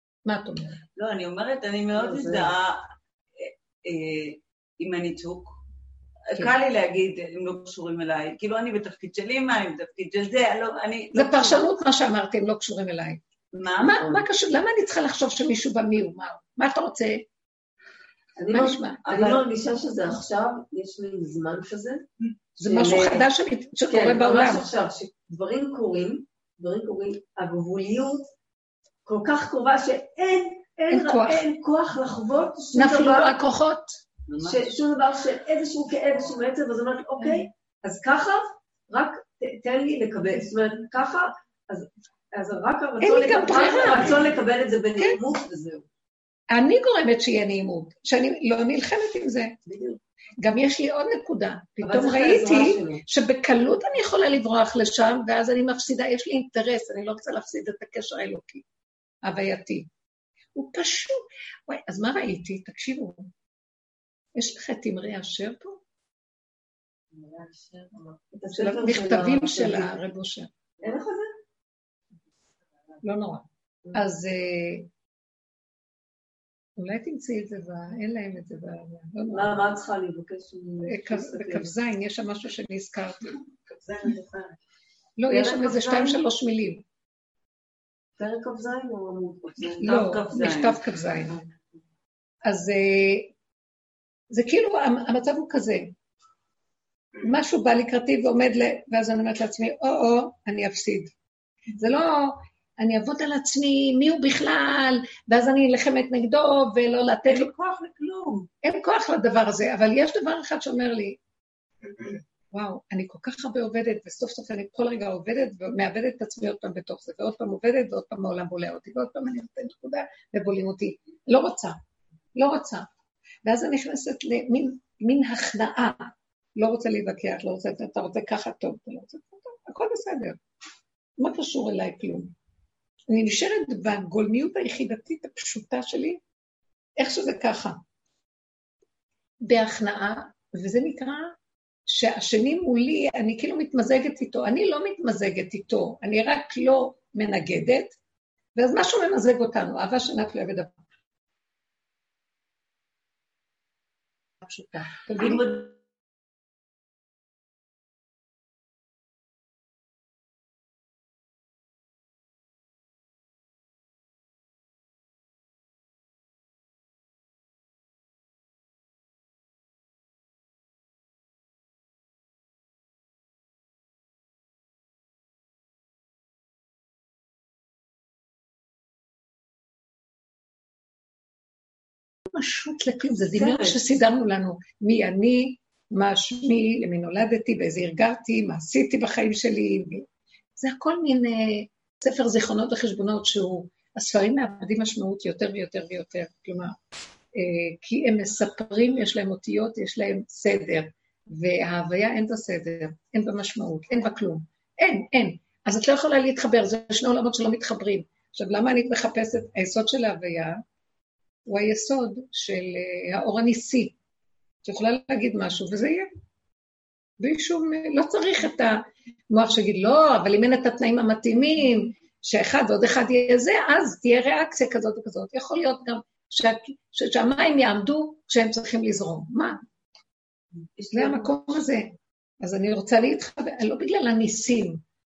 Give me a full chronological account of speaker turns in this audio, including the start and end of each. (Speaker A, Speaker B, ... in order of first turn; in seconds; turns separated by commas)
Speaker A: 0.2-0.8, Speaker B: 0.9-2.8, Speaker B: 3.4-5.6, Speaker B: 6.3-11.7, Speaker A: 11.1-13.2, Speaker B: 13.5-14.2, Speaker A: 13.8-17.2, Speaker C: 18.4-22.1, Speaker A: 18.5-19.4, Speaker A: 22.6-24.7, Speaker C: 22.6-23.3, Speaker C: 23.9-28.3, Speaker C: 29.0-33.4, Speaker A: 30.9-31.4, Speaker A: 32.7-34.0, Speaker B: 34.3-34.7, Speaker C: 34.4-45.8, Speaker A: 43.0-44.1, Speaker A: 46.5-49.6, Speaker C: 49.6-50.0, Speaker A: 50.4-58.6, Speaker C: 51.8-53.0, Speaker A: 59.2-59.9, Speaker A: 60.5-63.3, Speaker A: 64.3-65.8, Speaker C: 67.2-70.0, Speaker A: 68.5-70.5, Speaker C: 70.8-71.3, Speaker A: 73.0-74.9, Speaker A: 76.8-79.8, Speaker C: 79.3-81.7, Speaker A: 80.8-83.4, Speaker C: 83.7-84.5, Speaker A: 85.2-86.8, Speaker C: 85.3-86.2, Speaker C: 88.2-90.0, Speaker B: 89.7-90.8, Speaker A: 89.8-91.4, Speaker A: 92.4-93.3, Speaker A: 94.3-95.9, Speaker A: 97.2-101.1, Speaker A: 101.8-107.5, Speaker B: 107.4-108.5, Speaker A: 108.6-111.2, Speaker A: 112.0-121.8, Speaker A: 122.3-122.9, Speaker A: 123.4-130.4, Speaker A: 131.2-132.3, Speaker A: 133.1-136.2, Speaker A: 137.0-137.8, Speaker A: 139.4-141.3, Speaker A: 141.9-148.0, Speaker A: 148.6-150.7, Speaker A: 154.4-155.5, Speaker A: 182.3-196.8, Speaker A: 197.3-210.6, Speaker A: 211.5-213.9, Speaker A: 214.6-216.1, Speaker A: 217.2-229.6, Speaker C: 230.8-231.3, Speaker A: 230.9-234.8